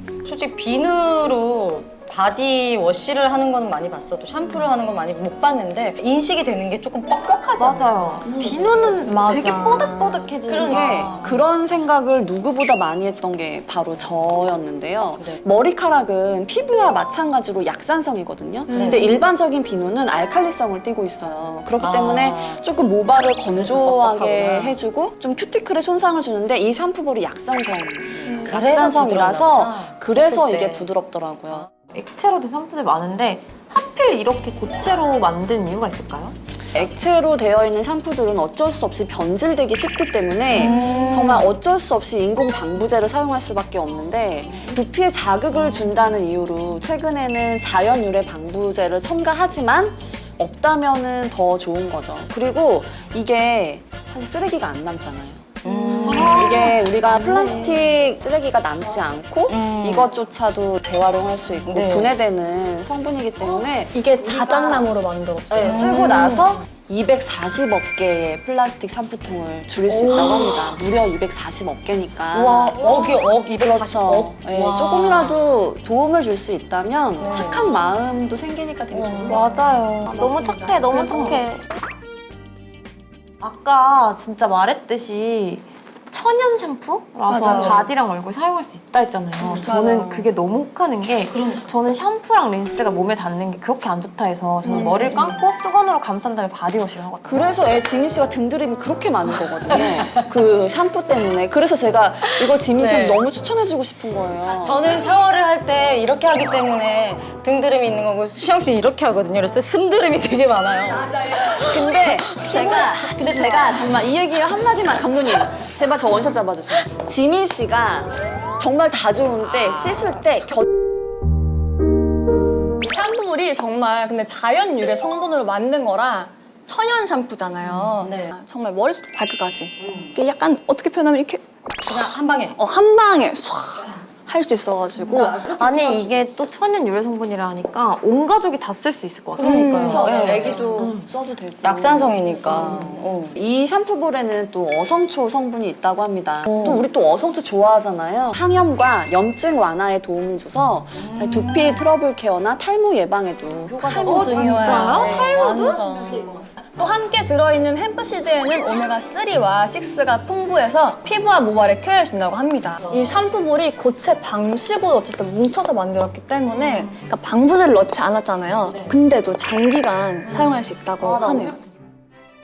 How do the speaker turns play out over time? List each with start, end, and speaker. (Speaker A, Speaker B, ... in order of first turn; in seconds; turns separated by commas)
Speaker A: 0.2-8.9, Speaker B: 7.6-11.4, Speaker C: 9.1-10.2, Speaker A: 10.5-11.3, Speaker D: 10.7-31.7, Speaker A: 18.7-19.1, Speaker A: 21.8-22.6, Speaker A: 23.5-24.8, Speaker A: 28.3-30.9, Speaker B: 31.9-36.4, Speaker D: 36.7-64.9, Speaker B: 40.6-41.5, Speaker A: 40.6-41.0, Speaker A: 55.6-56.7, Speaker B: 55.6-57.9, Speaker A: 59.5-60.1, Speaker A: 61.7-62.1, Speaker C: 63.9-66.3, Speaker D: 65.5-72.9, Speaker A: 65.6-66.5, Speaker C: 69.9-70.7, Speaker A: 72.3-75.5, Speaker C: 72.7-73.2, Speaker D: 73.6-79.5, Speaker A: 77.2-77.8, Speaker A: 78.9-79.3, Speaker B: 79.3-81.6, Speaker C: 80.0-81.5, Speaker B: 83.4-97.5, Speaker C: 87.3-87.9, Speaker C: 89.4-90.3, Speaker A: 91.3-91.7, Speaker C: 94.6-95.4, Speaker D: 97.2-105.0, Speaker A: 99.7-100.2, Speaker A: 102.8-103.2, Speaker A: 104.5-113.8, Speaker D: 110.9-120.7, Speaker A: 119.6-120.0, Speaker C: 122.8-135.4, Speaker A: 127.8-128.3, Speaker A: 131.8-132.6, Speaker A: 135.0-136.2, Speaker B: 135.3-141.0, Speaker C: 139.4-140.3, Speaker A: 139.6-140.8, Speaker D: 139.8-155.3, Speaker A: 141.6-143.4, Speaker B: 151.0-151.8, Speaker B: 153.8-156.5, Speaker C: 153.9-171.6, Speaker A: 162.8-163.2, Speaker A: 168.7-168.9, Speaker D: 171.0-171.6